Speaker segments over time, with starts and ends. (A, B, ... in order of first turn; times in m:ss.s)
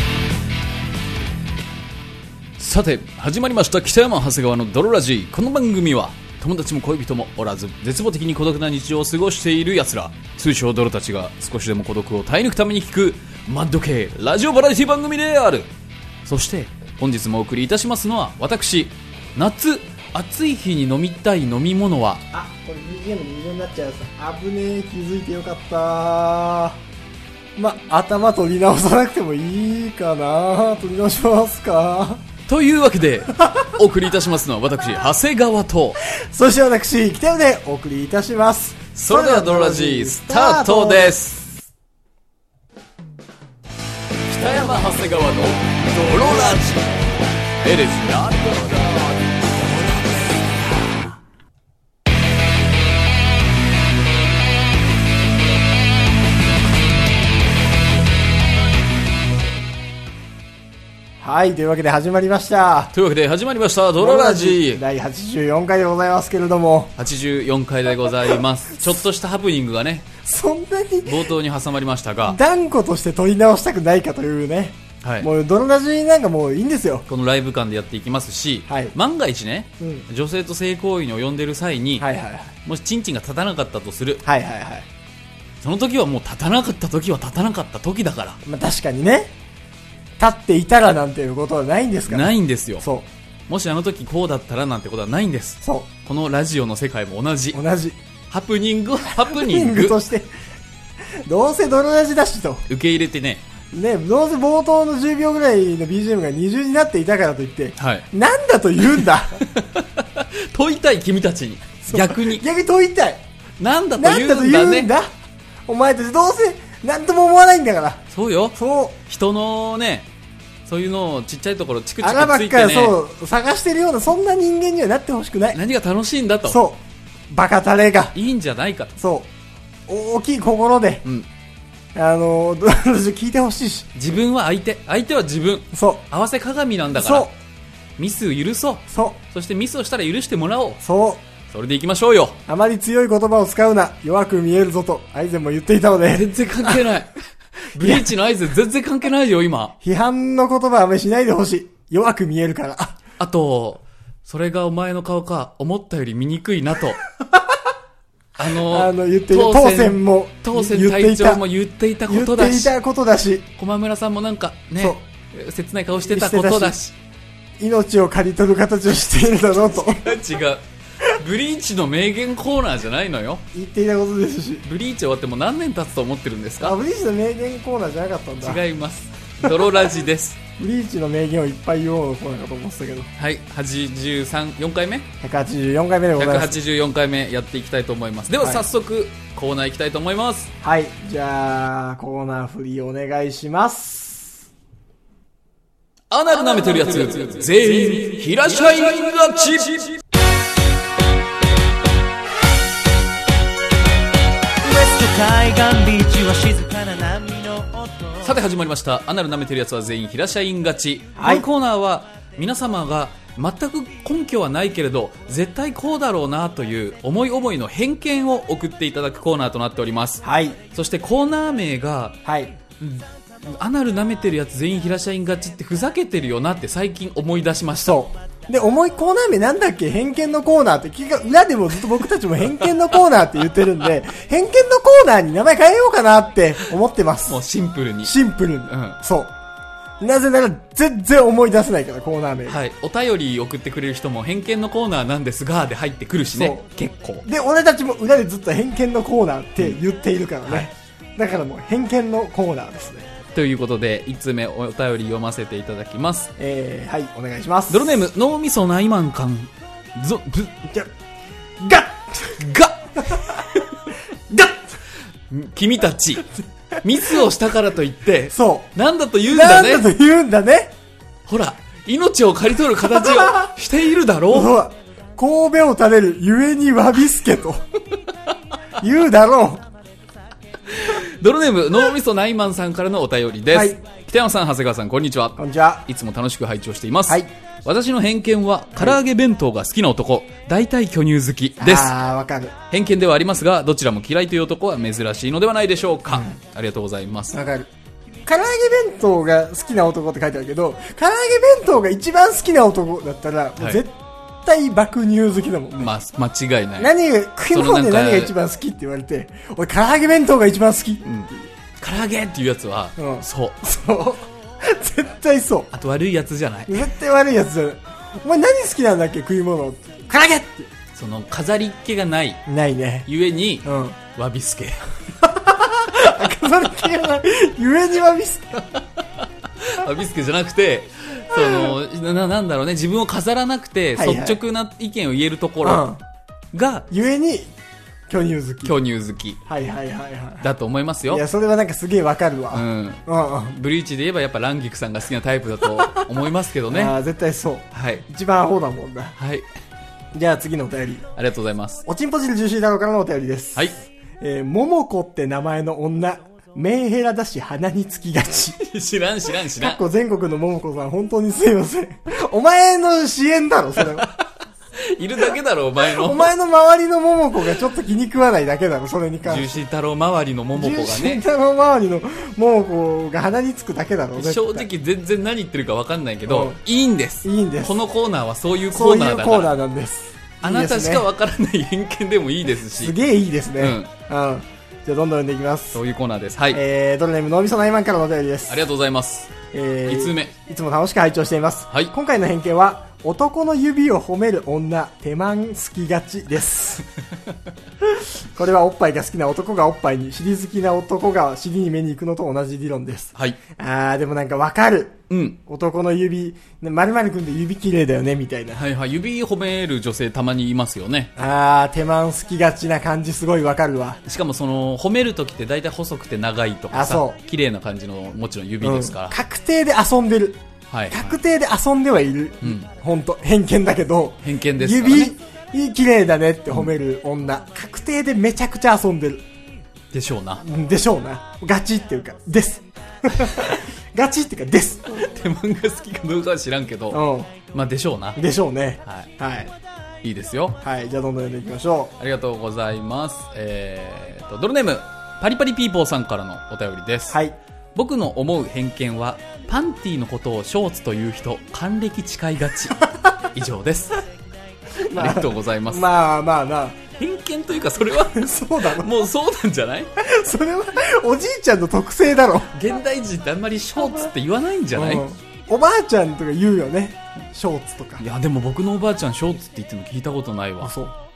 0:02.6-0:15.7 A
0:16.2-0:22.2 A
0:22.3-0:26.8 B
0:27.6-0:32.2 B
0:32.5-0:36.0 A
0:36.1-0:41.2 B
0:39.0-0:41.5 A
0:44.3-0:47.0 A
0:47.6-0:51.2 A
1:01.2-1:02.9 B
1:02.9-1:04.8 A
1:04.0-1:07.0 B
1:07.0-1:10.1 A
1:10.2-1:11.3 B
1:11.0-1:12.4 A
1:12.2-1:17.1 B
1:15.0-1:15.3 A
1:17.1-1:22.1 A
1:18.7-1:19.0 B
1:19.8-1:20.1 B
1:22.0-1:22.5 B
1:22.6-1:24.2 A
1:24.2-1:24.9 B
1:25.6-1:28.4 A
1:28.4-1:29.3 B
1:30.2-1:33.1 B
1:32.1-1:32.8 A
1:33.5-1:37.6 A
1:37.5-1:38.0 B
1:38.3-1:40.0 A
1:39.2-1:40.3 B
1:41.3-1:42.6 B
1:42.7-1:43.4 A
1:43.7-1:49.5 B
1:47.8-1:48.1 A
1:49.4-1:52.4 A
1:51.9-1:53.2 B
1:53.6-1:54.9 A
1:54.0-1:55.1 B
1:55.7-1:59.0 B
1:58.1-2:00.1 A
2:00.7-2:03.0 A
2:02.0-2:05.6 B
2:05.5-2:06.6 A
2:06.5-2:08.2 B
2:08.2-2:09.0 A
2:09.0-2:09.3 B
2:09.9-2:11.0 B
2:12.0-2:13.9 B
2:14.0-2:17.3 A
2:15.7-2:16.0 B
2:16.9-2:17.3 B
2:18.0-2:20.8 A
2:18.9-2:19.2 B
2:20.8-2:21.2 B
2:21.5-2:22.4 A
2:22.5-2:26.8 B
2:26.1-2:27.1 A
2:27.7-2:29.8 A
2:27.8-2:28.1 B
2:29.8-2:33.0 B
2:33.2-2:37.0 A
2:38.4-2:42.7 A
2:38.5-2:41.4 B
2:42.1-2:43.5 B
2:43.6-2:47.0 A
2:46.1-2:46.8 B
2:47.6-2:50.1 B
2:49.8-2:53.4 A
2:53.5-2:54.6 B
2:54.6-2:56.8 A
2:56.6-2:58.6 B
2:58.4-3:00.4 A
3:00.6-3:03.1 B
3:03.2-3:05.1 A
3:05.2-3:06.6 B
3:06.2-3:10.5 A
3:10.6-3:14.4 B
3:16.1-3:20.0 A
3:24.6-3:28.2 C
3:28.2-3:42.2 A
3:31.2-3:31.5 B
3:40.2-3:40.6 B
3:42.2-3:42.6 B
3:42.8-3:48.0 A
3:47.8-3:57.4 B
3:57.3-3:58.2 A
3:58.0-3:59.3 B
3:58.7-3:59.0 A
4:00.0-4:02.6 B
4:02.5-4:07.3 A
4:06.3-4:06.6 B
4:07.2-4:13.1 B
4:13.3-4:16.3 A
4:16.4-4:18.0 B
4:17.7-4:20.6 A
4:21.6-4:22.4 B
4:22.4-4:23.4 A
4:23.0-4:23.6 B
4:25.3-4:26.3 A
4:26.8-4:29.9 A
4:28.3-4:28.7 B
4:29.2-4:30.7 B
4:31.3-4:34.5 A
4:33.2-4:33.5 B
4:34.3-4:37.6 B
4:38.8-4:39.6 B
4:40.7-4:51.9 A
4:43.5-4:43.8 B
4:45.4-4:45.8 B
4:51.6-4:52.6 B
4:52.7-4:57.4 A
4:56.1-4:56.4 B
4:57.3-4:57.7 B
4:58.3-5:05.9 B
5:05.8-5:06.9 A
5:06.8-5:11.5 B
5:07.5-5:08.4 A
5:11.0-5:11.3 A
5:11.8-5:13.6 A
5:13.0-5:15.7 B
5:15.7-5:16.9 A
5:16.7-5:20.7 B
5:20.9-5:22.4 A
5:22.5-5:23.1 B
5:23.1-5:24.9 A
5:23.6-5:24.0 B
5:25.2-5:28.7 B
5:28.8-5:35.9 A
5:34.0-5:34.4 B
5:35.6-5:36.0 B
5:36.5-5:36.9 A
5:36.9-5:37.5 B
5:38.1-5:38.8 B
5:38.6-5:39.4 A
5:39.5-5:40.5 B
5:40.4-5:41.2 A
5:41.1-5:43.6 B
5:42.5-5:47.0 A
5:46.7-5:49.2 B
5:47.7-5:48.0 A
5:49.2-5:49.5 A
5:50.1-5:51.1 B
5:51.2-5:51.8 A
5:51.9-5:58.6 B
5:58.6-5:59.8 A
5:59.6-6:04.2 B
6:03.8-6:04.1 A
6:04.8-6:06.3 A
6:06.0-6:09.6 B
6:09.2-6:11.2 A
6:10.6-6:14.7 B
6:14.2-6:19.6 A
6:16.3-6:16.6 B
6:17.2-6:17.8 B
6:18.7-6:21.0 B
6:20.4-6:23.0 A
6:22.8-6:25.8 B
6:23.6-6:23.9 A
6:25.7-6:26.6 A
6:26.5-6:28.7 B
6:28.5-6:30.3 A
6:29.5-6:36.9 B
6:37.8-6:48.6 B
6:45.1-6:45.4 A
6:48.6-6:51.1 A
6:51.2-6:54.0 B
6:54.0-6:59.2 A
6:56.7-6:57.2 B
6:58.6-7:09.2 B
7:00.7-7:01.2 A
7:04.2-7:05.2 A
7:09.9-7:10.4 A
7:10.4-7:15.1 B
7:14.9-7:18.2 A
7:16.9-7:17.3 B
7:18.2-7:19.5 B
7:20.0-7:20.6 A
7:20.6-7:21.9 B
7:22.0-7:27.2 A
7:27.1-7:27.4 B
7:27.8-7:34.0 A
7:34.9-7:36.8 B
7:34.9-7:35.9 A
7:37.0-7:39.9 A
7:38.1-7:38.9 B
7:40.0-7:42.5 B
7:42.5-7:45.0 A
7:44.7-7:48.0 B
7:48.0-7:50.7 A
7:50.6-7:51.0 B